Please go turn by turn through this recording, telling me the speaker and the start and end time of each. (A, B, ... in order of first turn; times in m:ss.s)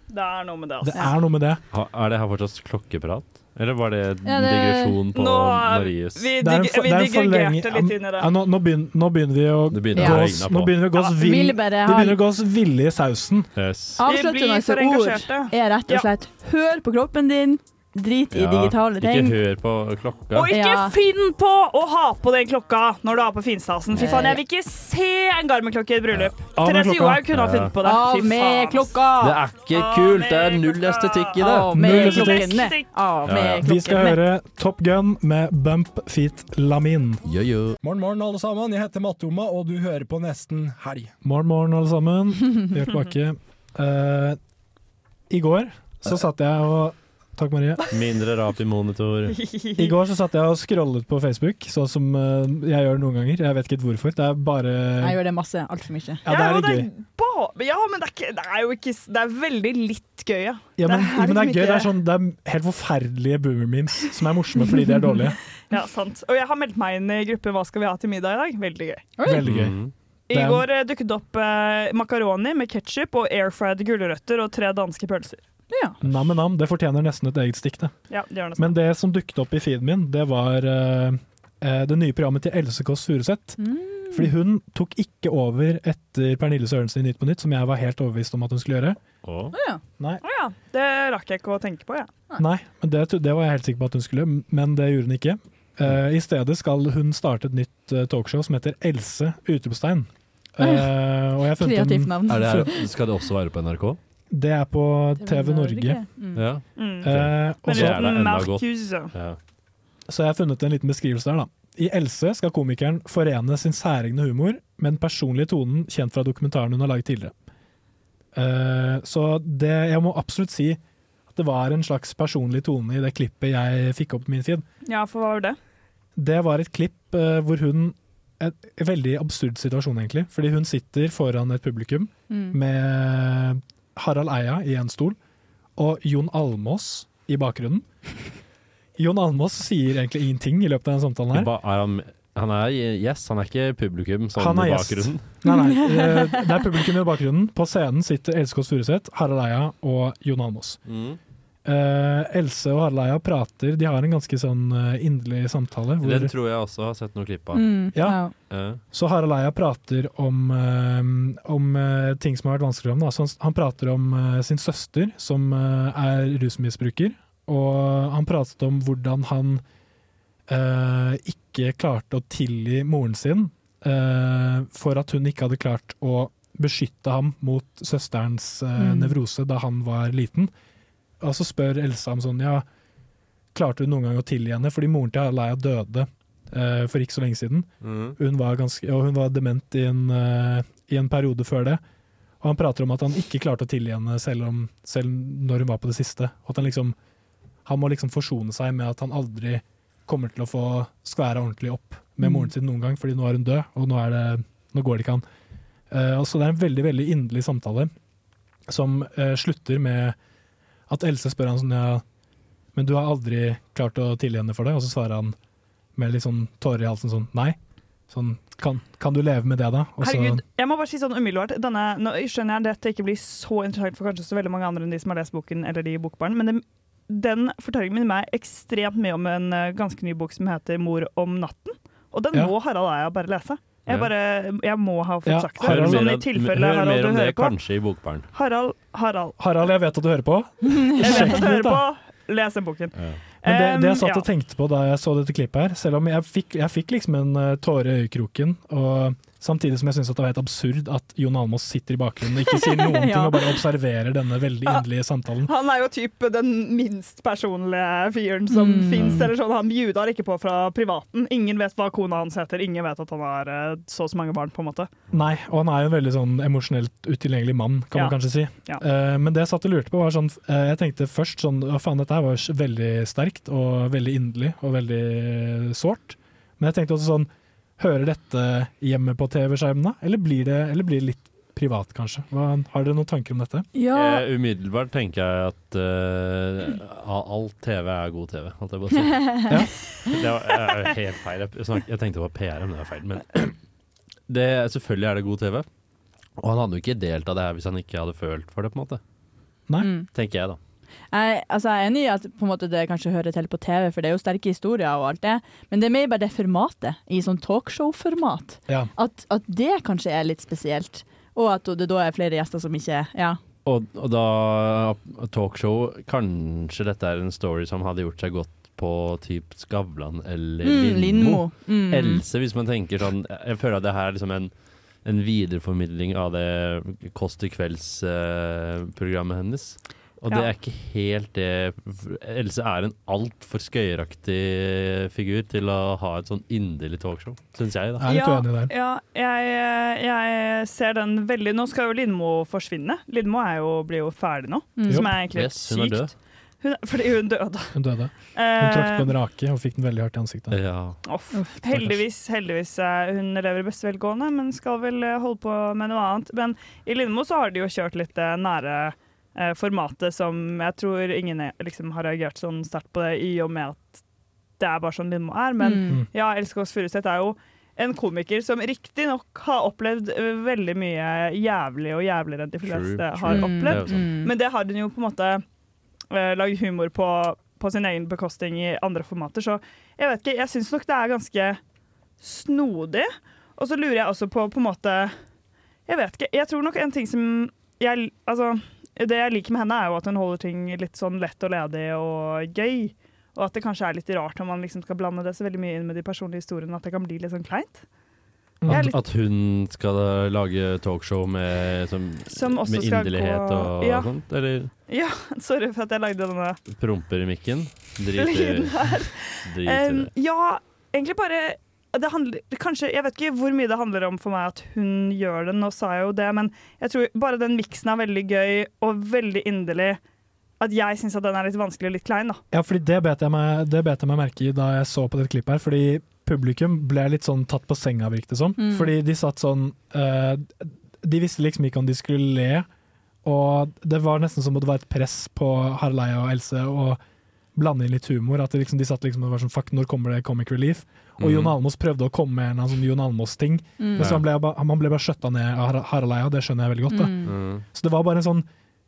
0:00.1-0:01.1 A
0:00.8-0:01.6 B
0:01.7-0:06.3 C
0:04.2-0:05.0 D
0:05.1-0:08.3 A
0:06.4-0:13.5 B
0:09.7-0:10.8 C
0:10.0-0:10.2 D
0:11.0-0:12.2 D
0:13.6-0:14.0 C
0:14.0-0:19.4 D
0:14.0-0:16.1 A
0:18.3-0:20.5 C
0:20.3-0:28.9 A
0:20.5-0:21.0 D
0:23.9-0:24.3 C
0:24.0-0:24.4 D
0:26.5-0:27.2 B
0:27.3-0:27.7 C
0:27.8-0:29.4 D
0:29.2-0:31.8 C
0:29.7-0:32.9 A
0:31.4-0:34.3 D
0:31.7-0:32.7 B
0:33.3-0:33.6 C
0:33.6-0:37.2 B
0:37.2-0:37.8 C
0:37.8-0:41.2 E
0:41.2-0:44.4 B
0:45.3-0:47.8 B
0:47.9-0:49.4 C
0:49.3-0:50.0 A
0:49.8-0:55.2 B
0:55.0-0:56.2 D
0:56.2-0:56.9 B
0:56.3-1:01.9 A
1:00.8-1:05.4 B
1:05.7-1:09.1 A
1:09.2-1:09.4 D
1:09.2-1:09.8 B
1:09.4-1:09.9 C
1:10.3-1:15.4 A
1:10.3-1:10.7 B
1:15.7-1:16.0 D
1:16.0-1:18.0 B
1:18.1-1:18.8 A
1:18.6-1:29.0 B
1:23.6-1:24.3 D
1:29.2-1:29.6 C
1:29.5-1:29.8 D
1:30.2-1:32.1 A
1:32.4-1:42.7 B
1:40.6-1:41.0 D
1:41.6-1:42.7 D
1:42.3-1:44.0 C
1:44.3-1:46.0 B
1:45.2-1:46.4 D
1:46.4-1:49.4 C
1:46.8-1:47.1 A
1:47.0-1:48.0 B
1:47.6-1:49.1 A
1:50.1-1:57.3 B
1:58.3-2:00.8 B
2:01.3-2:04.7 B
2:04.9-2:05.6 A
2:06.2-2:15.2 B
2:12.3-2:12.6 D
2:15.8-2:17.9 B
2:19.0-2:21.5 B
2:21.3-2:25.2 C
2:24.4-2:30.8 B
2:25.4-2:26.6 D
2:30.9-2:31.2 C
2:31.6-2:36.3 B
2:36.0-2:37.7 C
2:37.5-2:38.3 D
2:37.9-2:38.2 B
2:38.5-2:38.8 C
2:38.9-2:49.6 B
2:50.5-3:00.5 B
2:58.8-2:59.2 D
3:01.2-3:02.6 B
3:03.5-3:11.8 B
3:07.8-3:08.2 C
3:12.4-3:17.0 B
3:17.6-3:25.2 B
3:22.2-3:22.5 D
3:25.9-3:27.9 B
3:28.7-3:30.2 B
3:30.9-3:32.0 B
3:32.7-3:35.4 B
3:36.0-3:37.6 B
3:38.1-3:40.4 B
3:40.0-3:57.5 A
3:55.2-3:56.2 B
3:55.6-3:58.3 C
3:58.3-3:59.4 A
3:59.4-4:01.8 B
4:00.6-4:01.3 D
4:01.0-4:04.2 A
4:03.0-4:03.2 C
4:03.4-4:15.5 B
4:12.5-4:13.5 D
4:15.4-4:24.9 A
4:18.5-4:19.2 D
4:19.0-4:19.3 C
4:25.1-4:43.7 B
4:43.8-4:44.2 D
4:43.9-4:49.5 C
4:49.2-4:49.6 D
4:50.1-4:53.6 C
4:54.3-4:55.7 C
4:56.4-4:59.0 C
4:59.8-5:00.1 D
5:00.1-5:00.6 C
5:01.1-5:13.4 D
5:13.6-5:24.5 C
5:20.6-5:22.2 D
5:25.0-5:38.1 C
5:38.0-5:38.7 B
5:38.0-5:47.7 A
5:44.8-5:45.1 D
5:45.3-5:46.1 C
5:47.7-5:50.6 B
5:48.3-5:49.1 A
5:50.5-5:51.0 C
5:51.0-6:04.0 A
5:51.6-5:52.0 B
6:04.6-6:15.4 A
6:05.6-6:06.0 D
6:12.6-6:14.1 C
6:13.3-6:14.3 D
6:16.1-6:21.6 A
6:22.2-6:25.1 A
6:25.9-6:37.8 A
6:38.6-6:38.9 B
6:38.7-6:39.0 A
6:38.7-6:44.7 C
6:42.3-6:44.1 A
6:44.9-6:46.6 A
6:46.7-6:48.8 C
6:48.2-7:00.0 A
6:49.4-6:50.1 C
7:00.6-7:02.4 A
7:02.5-7:12.7 B
7:08.6-7:08.9 D
7:13.2-7:17.0 B
7:17.6-7:27.2 B
7:21.2-7:21.5 C
7:23.8-7:24.1 D
7:24.0-7:24.2 C
7:26.9-7:27.3 D
7:27.2-7:27.6 C
7:27.7-7:28.5 B